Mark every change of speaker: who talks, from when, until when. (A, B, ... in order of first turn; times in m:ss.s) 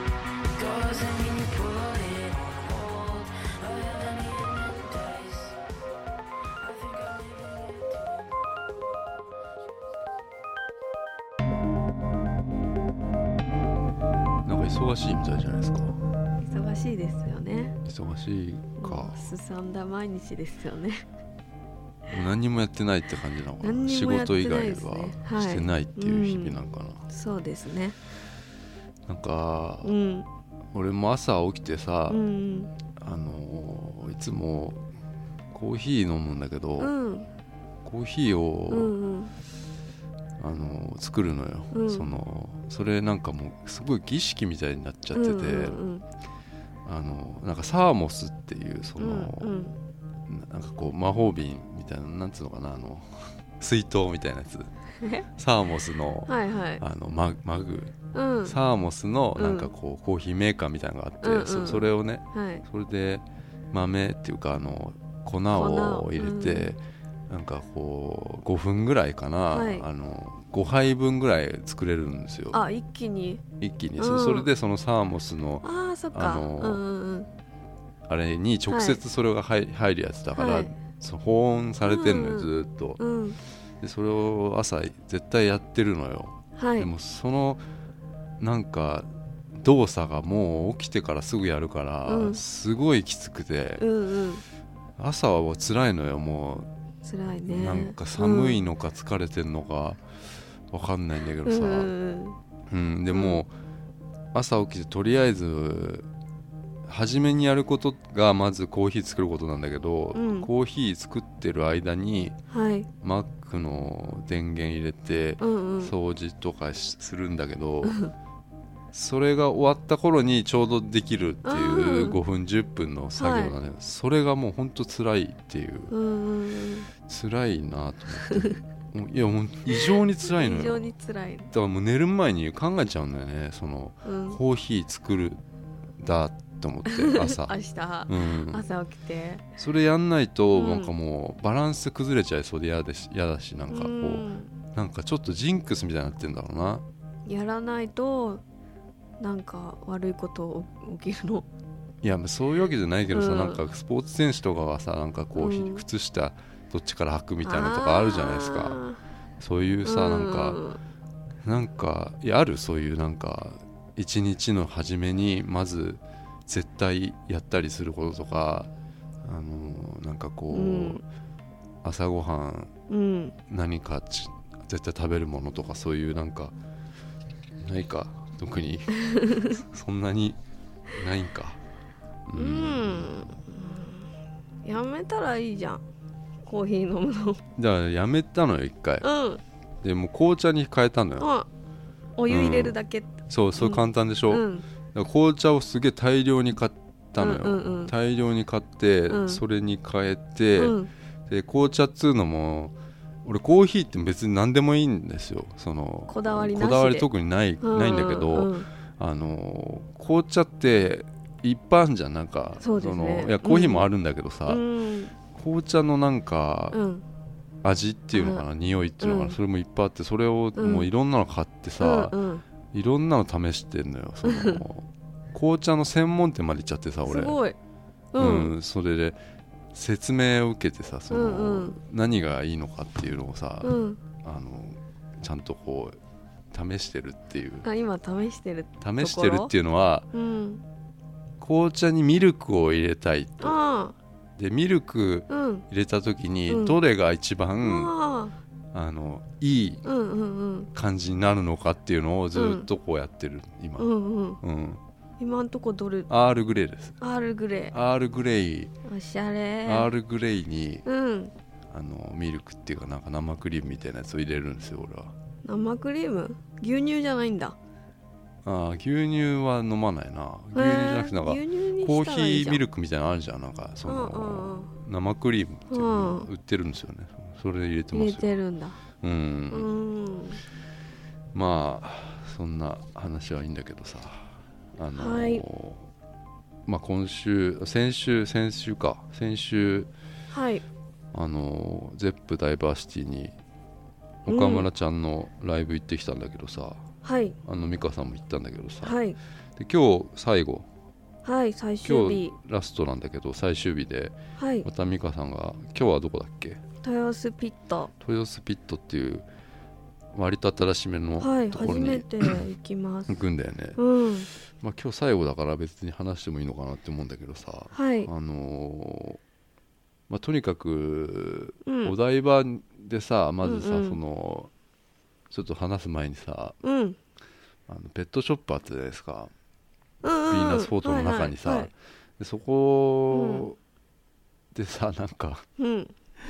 0:00.5-0:05.6 A
0:06.6-0:08.4 A
0:14.4-0:16.0 B
0:16.4-0:17.8 C
0:17.8-0:19.3 B
0:18.8-0:21.1 C
0:22.1-0:27.0 B
0:23.6-0:28.0 C
0:29.1-0:29.9 B
0:29.8-0:30.3 C
0:30.7-0:32.2 B
0:32.1-0:32.7 C
0:33.0-0:34.8 B
0:35.5-0:36.9 B
0:36.8-0:37.3 C
0:37.8-0:38.9 B
0:38.7-0:39.3 C
0:40.4-0:45.8 B
0:41.7-0:42.1 C
0:45.1-0:46.0 C
0:46.8-0:49.5 B
0:49.0-0:49.8 C
0:50.3-0:54.7 B
0:55.0-0:55.3 C
0:55.4-1:12.6 B
0:56.3-0:56.8 C
0:58.1-0:58.6 C
0:59.4-0:59.7 C
1:01.2-1:02.6 C
1:05.5-1:06.7 C
1:09.5-1:09.8 C
1:12.5-1:13.4 C
1:13.6-1:16.8 B
1:14.0-1:14.5 C
1:15.6-1:17.3 C
1:18.1-1:23.0 B
1:18.7-1:19.0 C
1:20.3-1:20.7 C
1:21.8-1:23.4 C
1:23.8-1:27.6 B
1:26.6-1:26.9 C
1:28.4-1:33.8 B
1:32.1-1:32.4 C
1:33.8-1:34.4 C
1:35.0-1:36.7 B
1:37.0-1:38.6 C
1:37.5-1:40.0 B
1:40.7-1:41.9 B
1:41.4-1:42.4 C
1:42.7-1:43.5 B
1:43.1-1:43.4 C
1:44.3-1:46.1 B
1:46.8-1:52.4 B
1:50.1-1:50.5 C
1:52.5-1:52.9 C
1:53.0-1:58.0 B
1:55.4-1:55.9 C
1:58.9-2:05.9 B
2:01.4-2:02.2 C
2:03.2-2:03.5 C
2:05.9-2:06.9 C
2:07.0-2:10.8 B
2:08.3-2:08.5 C
2:09.7-2:11.5 C
2:11.5-2:15.4 B
2:14.0-2:14.4 C
2:16.0-2:18.6 B
2:16.9-2:19.5 C
2:19.6-2:26.8 B
2:20.5-2:20.9 C
2:23.7-2:24.5 C
2:27.2-2:28.4 C
2:29.2-2:31.5 C
2:32.0-2:38.8 B
2:33.1-2:33.6 C
2:35.3-2:35.8 C
2:37.4-2:39.0 C
2:39.4-2:40.6 B
2:39.8-2:40.8 C
2:41.4-2:48.7 B
2:49.2-2:51.0 B
2:50.5-2:51.0 C
2:51.8-2:52.7 B
2:52.9-2:53.4 C
2:53.5-2:56.5 B
2:57.6-3:00.4 B
3:00.9-3:01.6 B
3:02.3-3:03.2 B
3:02.4-3:04.1 C
3:04.6-3:05.8 C
3:06.4-3:07.4 C
3:07.6-3:09.1 B
3:09.0-3:09.4 C
3:09.8-3:11.3 B
3:11.2-3:11.5 C
3:12.2-3:14.6 C
3:12.3-3:34.6 B
3:17.2-3:17.9 C
3:19.1-3:19.4 C
3:20.6-3:20.9 C
3:26.1-3:27.1 C
3:27.6-3:28.7 C
3:32.6-3:33.8 C
3:34.5-3:35.1 C
3:35.3-3:36.8 B
3:36.7-3:37.0 C
3:37.6-3:42.2 B
3:38.1-3:38.4 C
3:39.0-3:39.4 C
3:40.6-3:40.9 C
3:41.8-3:42.4 C
3:42.7-3:47.4 B
3:44.2-3:44.6 C
3:47.0-3:47.6 C
3:48.1-3:48.5 C
3:48.2-3:49.2 B
3:49.7-3:56.0 B
3:51.1-3:51.8 C
3:53.6-3:54.0 C
3:56.5-3:57.7 B
3:57.6-3:59.5 C
3:58.8-4:00.1 B
4:00.1-4:00.6 C
4:01.4-4:03.6 B
4:03.4-4:03.9 C
4:04.4-4:07.9 B
4:05.3-4:05.6 C
4:06.5-4:06.8 C
4:07.6-4:08.3 C
4:08.7-4:09.8 B
4:09.8-4:10.7 C
4:10.7-4:13.9 B
4:12.3-4:12.7 C
4:13.8-4:14.4 C
4:14.4-4:14.8 B
4:15.2-4:16.1 C
4:16.1-4:17.0 B
4:17.0-4:17.7 C
4:17.7-4:18.7 B
4:18.8-4:19.9 C
4:19.6-4:20.8 B
4:20.8-4:21.3 C
4:21.7-4:25.1 B
4:25.4-4:27.6 C
4:28.4-4:38.3 B
4:30.5-4:32.6 C
4:33.8-4:34.7 C
4:35.7-4:36.3 C
4:37.9-4:38.8 C
4:39.0-4:39.7 B
4:39.5-4:40.4 C
4:41.3-4:45.9 B
4:44.9-4:45.4 C
4:46.6-4:49.9 B
4:50.3-4:50.6 C
4:51.1-4:53.3 B
4:54.2-4:56.9 B
4:54.3-4:54.7 C
4:57.0-4:57.4 C
4:57.4-4:59.0 B
4:58.8-4:59.2 C
4:59.6-5:00.7 B
5:01.2-5:02.3 C
5:01.8-5:06.6 B
5:04.4-5:04.7 C
5:06.8-5:07.9 C
5:08.0-5:09.3 B
5:10.1-5:12.4 B
5:11.2-5:13.2 C
5:13.1-5:13.8 B
5:13.8-5:14.3 C
5:14.3-5:19.2 B
5:17.7-5:18.1 C
5:20.1-5:24.5 B
5:21.6-5:21.9 C
5:23.4-5:24.0 C
5:25.3-5:26.6 B
5:26.6-5:27.0 C
5:27.7-5:29.3 B
5:30.0-5:31.7 C
5:30.3-5:33.6 B
5:33.1-5:33.5 C
5:34.5-5:35.4 B
5:35.6-5:35.9 C